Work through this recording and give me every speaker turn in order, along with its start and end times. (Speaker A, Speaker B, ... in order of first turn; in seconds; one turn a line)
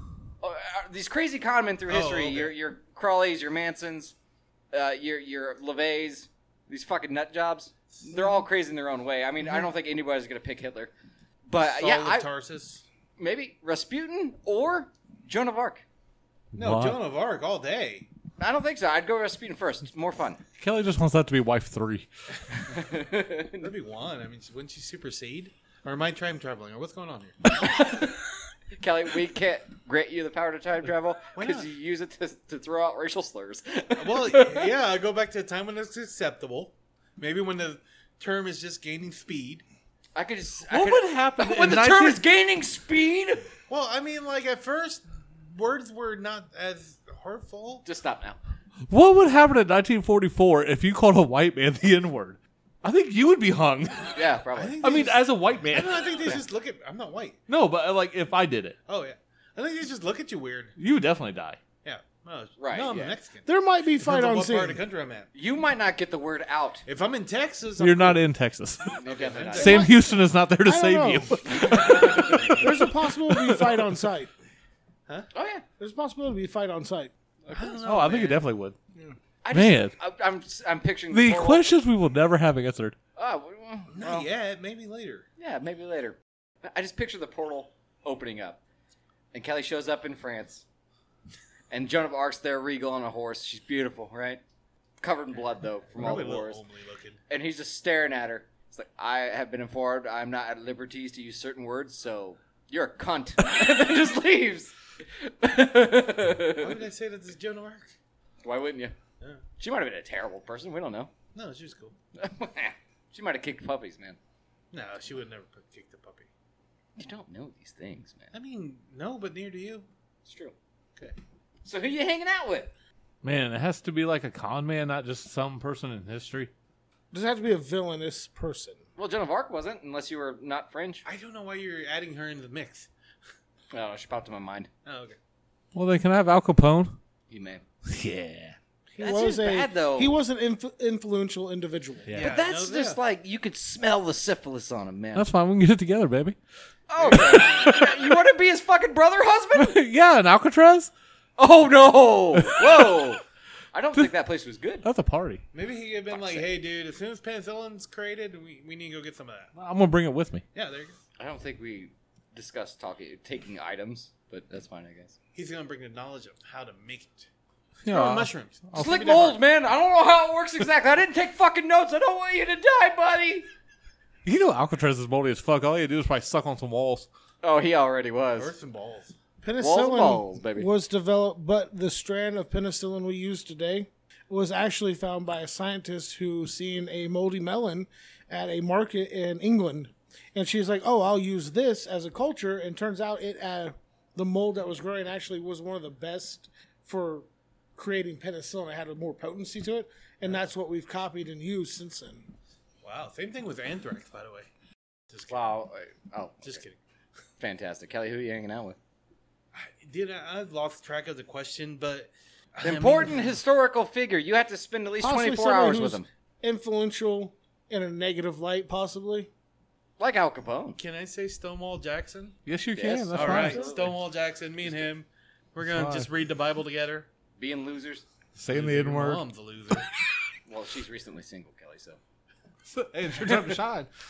Speaker A: 0.4-4.2
Speaker B: 1.9-2.5
Speaker A: 4.7-10.9
Speaker B: 8.0-8.4
Speaker A: 11.5-12.3
Speaker B: 11.6-12.8
Speaker A: 13.2-15.8
Speaker C: 16.5-17.0
Speaker B: 16.6-18.1
Speaker A: 18.4-20.4
Speaker C: 20.6-22.1
Speaker A: 22.7-23.7
Speaker B: 23.6-27.5
Speaker A: 27.6-28.1
Speaker A: 28.8-34.7
Speaker B: 31.4-31.7
Speaker B: 34.0-39.6
Speaker A: 40.2-43.5
Speaker C: 40.7-42.2
Speaker B: 43.7-47.8
Speaker A: 47.8-48.4
Speaker C: 48.9-54.2
Speaker A: 54.1-54.9
Speaker B: 54.5-57.4
Speaker C: 54.8-56.4
Speaker C: 57.5-58.8
Speaker B: 58.9-60.8
Speaker C: 60.8-61.6
Speaker B: 61.8-65.3
Speaker A: 62.6-63.2
Speaker D: 63.5-64.8
Speaker A: 65.3-66.8
Speaker B: 66.9-68.2
Speaker C: 67.8-73.9
Speaker A: 69.0-70.0
Speaker B: 69.0-69.9
Speaker D: 70.6-74.3
Speaker A: 71.5-72.6
Speaker A: 75.3-75.6
Speaker D: 75.8-77.1
Speaker A: 77.5-77.8
Speaker B: 77.5-78.4
Speaker C: 77.8-78.8
Speaker A: 79.4-81.7
Speaker C: 79.5-79.9
Speaker C: 81.1-83.0
Speaker A: 83.2-84.3
Speaker B: 83.9-85.3
Speaker A: 85.4-88.6
Speaker A: 89.3-90.6
Speaker A: 91.7-94.4
Speaker A: 95.0-96.6
Speaker B: 95.9-97.2
Speaker A: 97.3-106.8
Speaker B: 106.6-107.9
Speaker A: 108.4-109.0
Speaker A: 109.6-111.1
Speaker B: 111.3-112.0
Speaker A: 112.2-114.2
Speaker B: 114.7-116.3
Speaker A: 117.0-118.3
Speaker B: 118.3-119.9
Speaker A: 120.2-120.5
Speaker A: 121.7-122.7
Speaker C: 123.2-126.5
Speaker D: 127.1-128.8
Speaker A: 129.0-131.0
Speaker B: 131.0-132.9
Speaker A: 133.7-134.7
Speaker B: 134.8-135.2
Speaker C: 135.7-137.0
Speaker A: 137.3-137.6
Speaker C: 137.9-138.6
Speaker D: 138.9-142.1
Speaker A: 139.0-140.2
Speaker C: 142.1-142.3
Speaker B: 142.1-143.0
Speaker A: 142.2-145.3
Speaker C: 145.2-146.4
Speaker A: 146.9-149.8
Speaker B: 147.0-147.5
Speaker C: 147.1-148.1
Speaker C: 149.6-150.9
Speaker A: 151.4-153.2
Speaker C: 152.4-153.0
Speaker A: 153.7-154.9
Speaker C: 154.8-155.4
Speaker B: 155.5-159.5
Speaker A: 156.1-156.5
Speaker C: 159.6-160.4
Speaker B: 160.6-161.0
Speaker A: 161.2-165.2
Speaker B: 165.3-167.3
Speaker C: 167.8-169.2
Speaker B: 167.9-169.4
Speaker A: 168.8-173.5
Speaker C: 174.2-177.1
Speaker A: 177.4-178.5
Speaker B: 178.4-179.1
Speaker D: 179.4-202.3
Speaker A: 179.6-180.7
Speaker B: 202.8-204.5
Speaker B: 205.1-205.5
Speaker A: 205.3-206.6
Speaker B: 206.4-206.8
Speaker A: 207.4-208.8
Speaker B: 209.5-213.3
Speaker A: 212.6-216.1
Speaker D: 215.0-219.3
Speaker A: 220.0-220.8
Speaker B: 220.8-222.4
Speaker C: 222.5-223.7
Speaker A: 222.8-223.7
Speaker B: 223.1-227.1
Speaker D: 223.3-223.8
Speaker C: 225.7-226.1
Speaker A: 227.4-228.1
Speaker C: 228.3-229.2
Speaker B: 228.5-229.9
Speaker A: 230.5-232.0
Speaker C: 232.7-233.9
Speaker B: 233.0-233.6